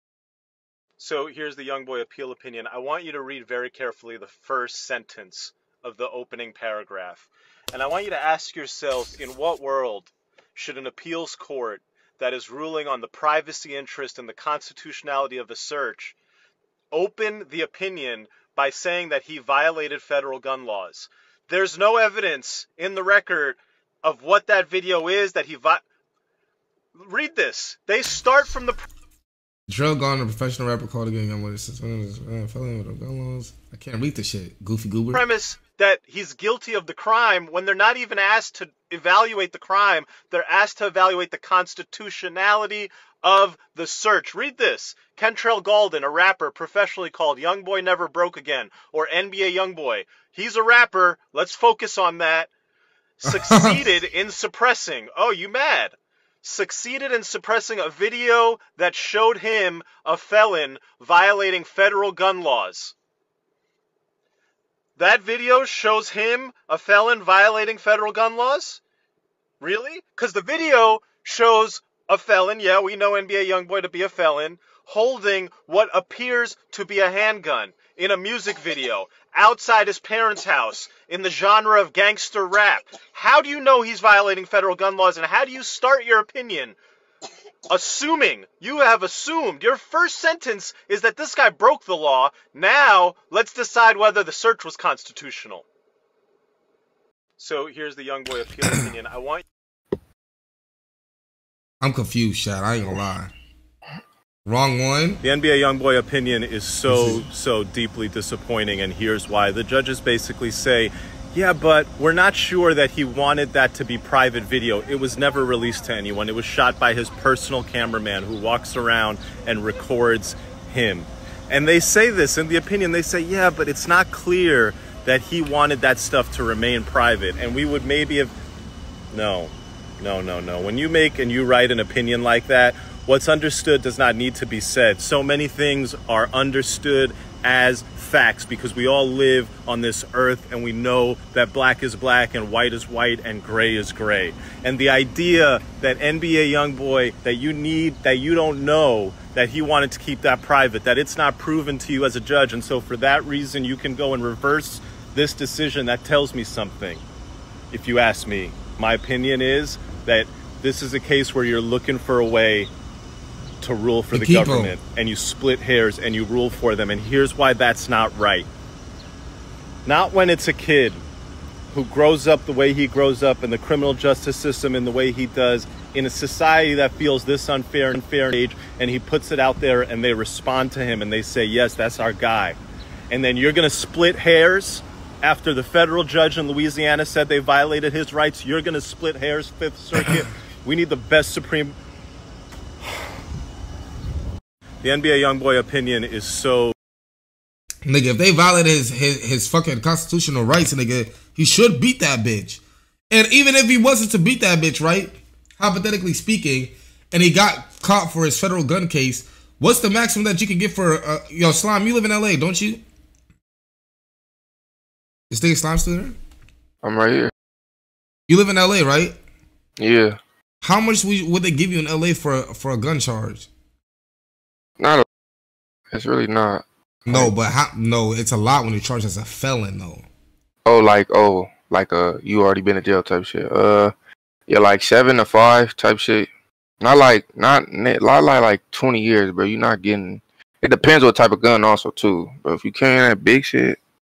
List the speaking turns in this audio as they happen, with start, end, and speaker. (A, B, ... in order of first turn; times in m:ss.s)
0:01.0-0:16.1 A
0:16.9-0:25.8 A
0:26.9-0:28.8 A
0:29.7-0:35.2 B
0:35.1-0:52.5 A
0:53.2-1:02.9 A
0:53.2-0:53.8 B
1:05.0-1:08.8 A
1:09.6-1:26.8 A
1:27.7-1:35.6 A
1:37.4-1:39.4 A
1:41.8-1:43.3 B
1:44.4-1:45.2 B
1:45.2-2:08.3 A
1:46.9-1:47.2 B
2:09.1-2:37.0 A
2:37.7-2:42.7 A
2:43.6-2:48.5 A
2:44.1-2:44.8 B
2:49.8-2:51.0 A
2:51.7-3:02.6 A
3:03.1-3:11.7 A
3:14.8-3:16.7 A
3:17.8-3:32.8 B
3:35.3-3:36.1 B
3:36.8-3:37.3 C
3:38.3-3:39.2 B
3:39.8-3:40.2 C
3:40.6-3:43.5 B
3:44.8-3:45.0 C
3:45.9-3:47.3 C
3:47.1-3:50.0 B
3:50.6-3:53.9 C
3:54.5-3:56.3 C
3:56.8-4:03.8 C